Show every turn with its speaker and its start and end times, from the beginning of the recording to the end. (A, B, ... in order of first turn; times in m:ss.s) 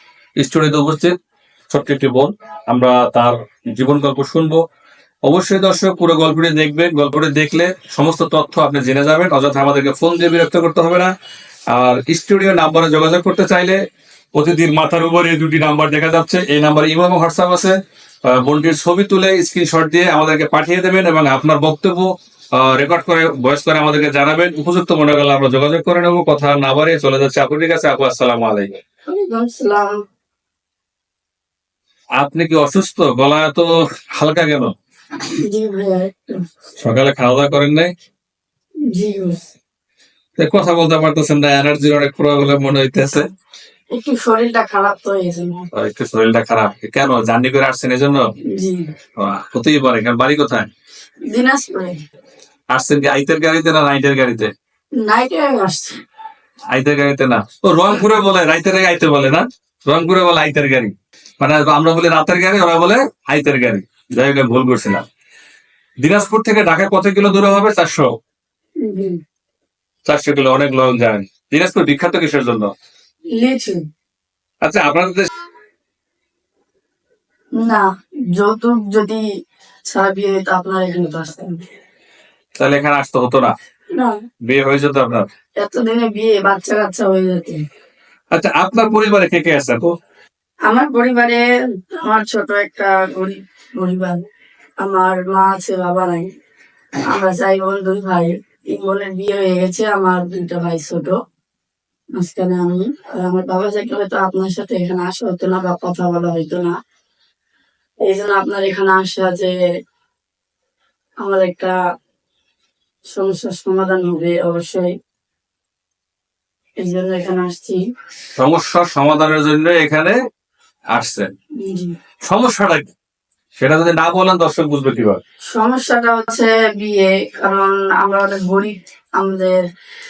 0:00.4-0:01.1 A
0:01.7-0:04.6 A
0:05.2-0:11.1 A
0:11.7-0:13.8 A
0:14.4-0:28.8 A
0:29.1-0:30.0 B
0:32.2-0:34.7 A
0:35.4-0:36.4 B
0:36.8-0:37.9 A
0:38.9-0:39.4 B
0:40.4-0:43.3 A
0:43.9-0:45.7 B
0:45.7-0:48.3 A
0:48.6-0:48.9 B
0:49.2-0:50.7 A
0:51.3-0:52.0 B
0:52.7-0:54.5 A
0:55.0-0:56.0 B
0:56.7-1:05.0 A
1:06.0-1:08.1 A
1:08.8-1:09.2 B
1:10.0-1:12.7 A
1:13.4-1:13.8 B
1:14.6-1:15.3 A
1:17.6-1:19.2 B
1:19.9-1:21.6 B
1:22.6-1:23.5 A
1:24.4-1:25.2 A
1:25.6-1:27.6 B
1:28.3-1:29.9 A
1:30.7-1:34.2 B
1:34.8-1:36.3 B
1:37.0-1:41.2 B
1:42.2-1:46.7 B
1:48.0-1:49.5 B
1:51.2-1:51.7 B
1:53.1-1:54.9 B
1:56.8-1:57.8 B
1:58.4-2:00.2 A
2:00.9-2:01.3 A
2:01.6-2:01.9 B
2:02.2-2:02.9 A
2:03.6-2:05.2 A
2:05.5-2:09.6 B